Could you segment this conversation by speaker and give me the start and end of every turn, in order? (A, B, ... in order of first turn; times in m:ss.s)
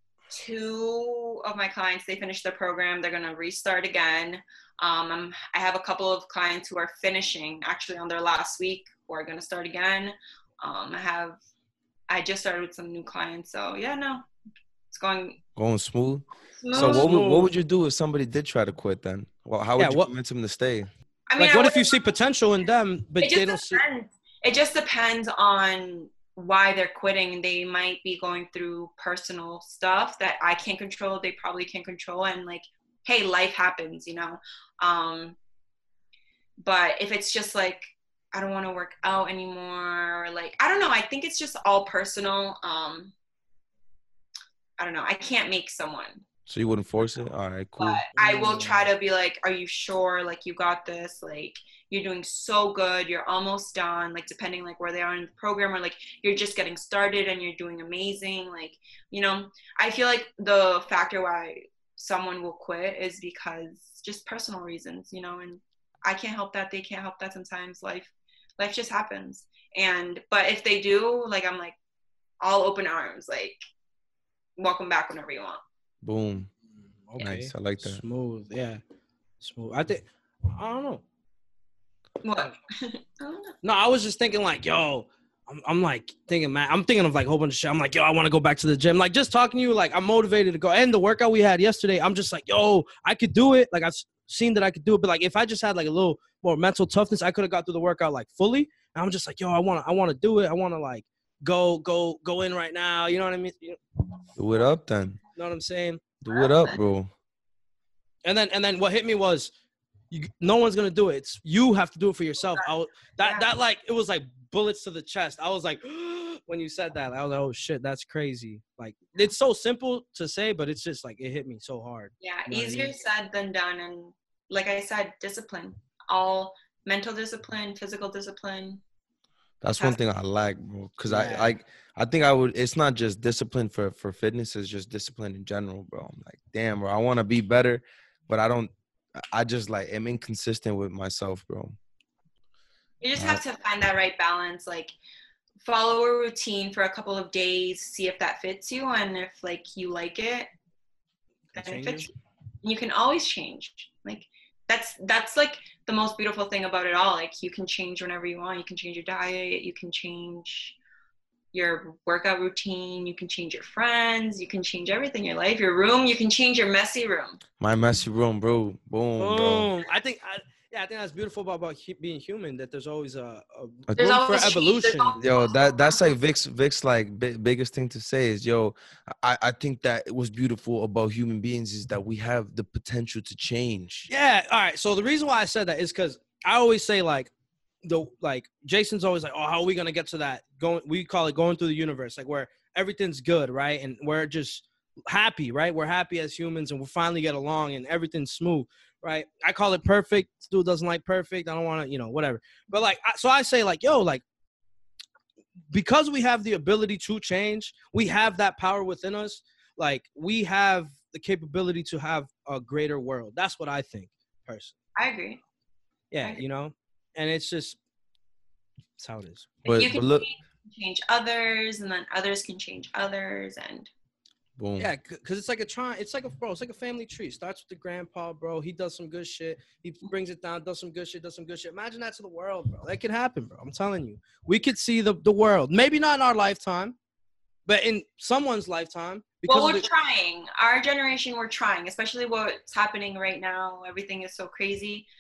0:00.3-0:11.4 A
0:12.1-0:14.3 A
0:14.9-0:15.4 A
0:15.6-0:20.9 B
0:16.6-0:17.1 A
0:16.7-0:17.5 C
0:19.8-0:20.1 C
0:21.3-0:22.1 A
0:21.4-0:23.8 C
0:23.2-0:35.4 A
0:36.6-0:43.1 A
0:44.8-0:46.2 A
0:46.5-0:48.0 B
0:47.8-1:11.8 A
0:48.2-0:48.9 C
1:12.4-1:13.6 A
1:14.6-1:15.6 A
1:16.0-1:16.5 B
1:17.1-1:18.8 C
1:17.2-1:18.0 B
1:19.4-1:21.0 C
1:22.2-1:23.6 A
1:23.6-1:43.8 C
1:44.4-1:45.2 B
1:45.4-1:46.1 C
1:46.2-1:47.1 B
1:46.3-1:46.8 A
1:48.2-1:49.5 C
1:50.1-2:03.0 C
2:02.2-2:08.8 A
2:09.6-2:21.8 B
2:11.1-2:11.5 C
2:23.0-2:24.9 A
2:23.2-2:23.4 B
2:25.6-2:30.5 A
2:31.5-2:32.1 C
2:31.6-2:40.8 A
2:41.5-2:47.4 A
2:47.6-2:49.7 B
2:49.2-2:55.2 C
2:54.0-2:56.0 A
2:55.2-3:04.1 B
3:04.1-3:07.3 C
3:07.8-3:24.2 C
3:25.7-3:34.8 C
3:35.0-3:35.4 A
3:36.1-3:37.8 C
3:39.0-3:39.6 C
3:39.6-3:40.3 B
3:39.7-3:43.9 A
3:44.6-3:44.9 B
3:44.8-3:57.0 C
3:57.7-3:59.9 C
3:59.5-4:05.1 A